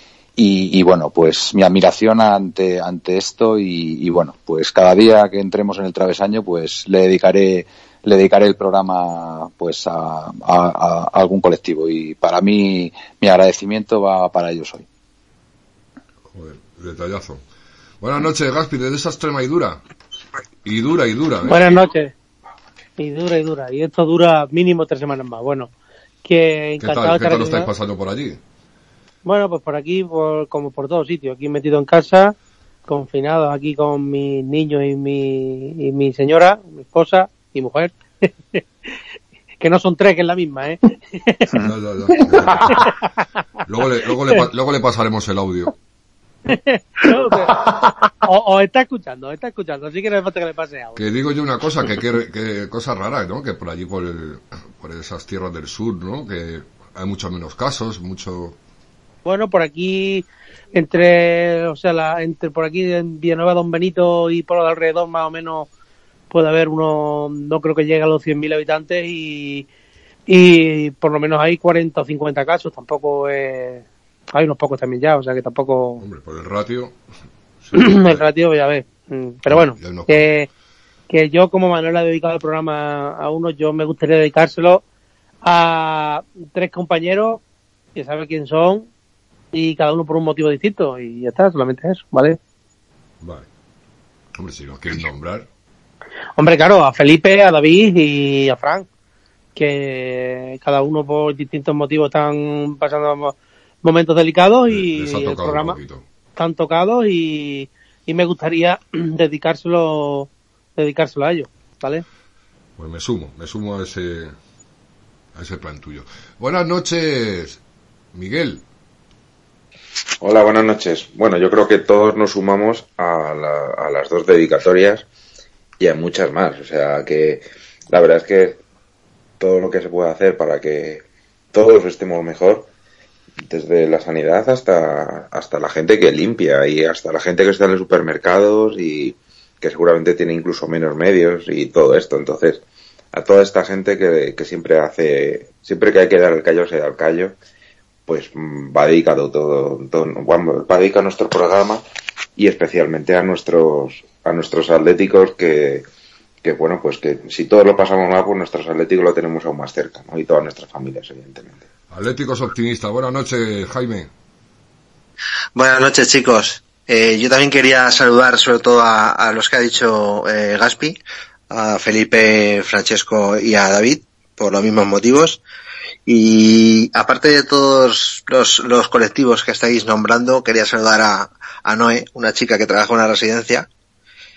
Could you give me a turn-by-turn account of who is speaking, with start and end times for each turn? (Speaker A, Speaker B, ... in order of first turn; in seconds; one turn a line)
Speaker A: 0.4-14.8
Speaker B: 16.3-17.4
Speaker B: 18.0-19.8
Speaker B: 20.6-21.8
Speaker C: 21.4-22.1
Speaker C: 23.0-25.7
Speaker C: 26.2-27.7
Speaker B: 26.8-28.4
Speaker C: 29.2-32.3
Speaker C: 32.9-38.6
Speaker C: 39.6-41.5
Speaker B: 41.6-42.9
Speaker C: 42.6-42.9
Speaker B: 43.7-45.7
Speaker C: 46.5-51.0
Speaker B: 51.0-58.6
Speaker C: 59.2-65.7
Speaker C: 66.3-69.7
Speaker C: 70.3-76.0
Speaker B: 76.0-77.0
Speaker B: 77.6-78.2
Speaker C: 77.7-80.5
Speaker B: 79.5-80.3
Speaker C: 81.1-84.8
Speaker C: 85.4-87.4
Speaker C: 87.9-88.9
Speaker C: 89.5-92.4
Speaker B: 93.2-93.5
Speaker B: 94.3-95.5
Speaker C: 96.4-98.8
Speaker C: 99.5-105.8
Speaker B: 104.7-106.0
Speaker C: 106.3-112.0
Speaker B: 112.8-114.3
Speaker B: 115.3-117.6
Speaker B: 118.1-118.6
Speaker D: 120.2-125.0
Speaker D: 125.8-128.6
Speaker D: 129.4-132.7
Speaker D: 133.5-142.6
Speaker D: 143.1-147.3
Speaker D: 148.1-151.8
Speaker D: 152.4-155.8
Speaker D: 156.4-161.6
Speaker B: 161.9-164.1
Speaker E: 165.5-171.0
Speaker E: 171.5-175.4
Speaker E: 176.1-183.7